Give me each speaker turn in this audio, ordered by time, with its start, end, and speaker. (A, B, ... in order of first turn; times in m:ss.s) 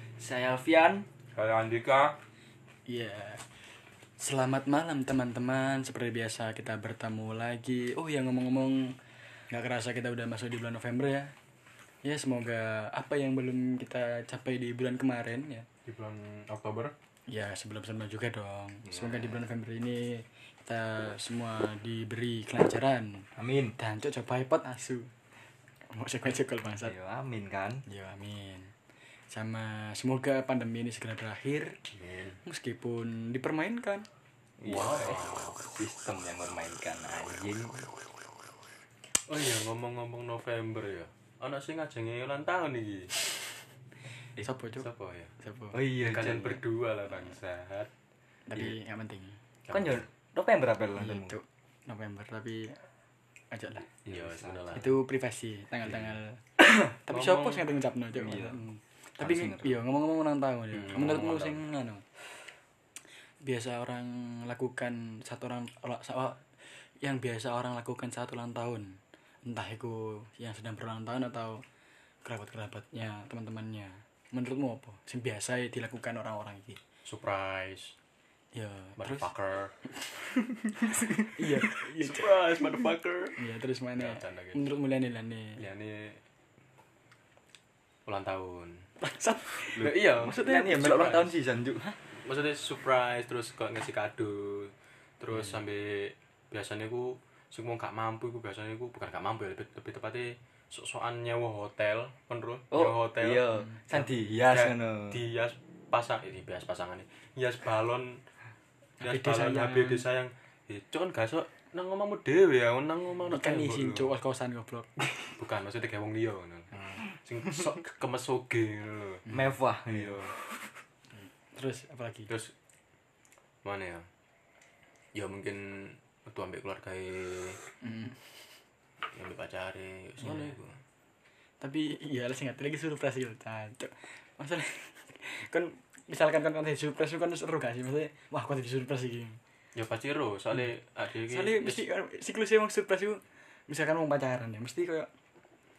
0:00.2-0:01.1 A
0:01.4-0:02.2 B
0:02.9-0:03.4 C
0:04.2-0:09.0 C
0:09.5-0:11.3 C
0:12.0-0:15.7 C
0:15.9-0:16.9 B
0:17.3-0:25.1 C
0:23.4-0:23.8 A
0:25.9-0:26.9 C
0:26.8-0:27.8 A
0:27.9-0:28.7 C
0:29.3-0:31.8 C
0:31.9-0:32.4 B
0:32.4-0:34.1 C
0:34.6-0:37.8 A
0:34.6-0:35.6 B
0:39.3-0:43.1 B
0:44.4-0:44.9 C
0:44.8-0:45.3 B
0:45.4-0:45.8 C
0:45.7-0:46.6 A
0:46.0-0:47.9 B
0:48.5-0:49.4 C
0:49.6-0:50.0 B
0:49.7-0:51.4 A
0:51.0-0:52.8 C
0:53.5-0:53.9 C
0:54.0-0:54.9 B
0:54.1-0:54.8 A
0:54.7-1:02.0 C
0:57.1-0:57.7 B
0:58.2-0:58.6 A
0:59.2-0:59.8 A
1:00.7-1:01.6 B
1:03.4-1:06.4 C
1:07.0-1:11.6 C
1:12.2-1:16.8 C
1:17.0-1:18.0 B
1:18.6-1:19.3 C
1:19.0-1:19.7 B
1:20.9-1:22.3 C
1:22.0-1:23.4 B
1:23.4-1:25.6 C
1:24.0-1:24.6 B
1:25.6-1:26.2 B
1:28.1-1:28.9 B
1:29.0-1:31.0 C
1:29.8-1:31.9 A
1:29.8-1:31.3 B
1:32.1-1:48.2 B
1:42.7-1:45.2 A
1:49.0-1:50.0 C
1:49.0-1:54.1 B
1:53.3-1:55.0 C
1:55.4-1:59.2 B
1:59.3-1:59.6 C
1:59.3-2:00.7 A
1:59.9-2:00.3 B
2:01.5-2:02.3 C
2:03.6-2:04.1 B
2:05.1-2:07.6 B
2:07.8-2:08.2 C
2:09.1-2:10.8 B
2:10.2-2:10.5 C
2:11.6-2:19.4 C
2:19.8-2:21.9 B
2:21.3-2:25.1 C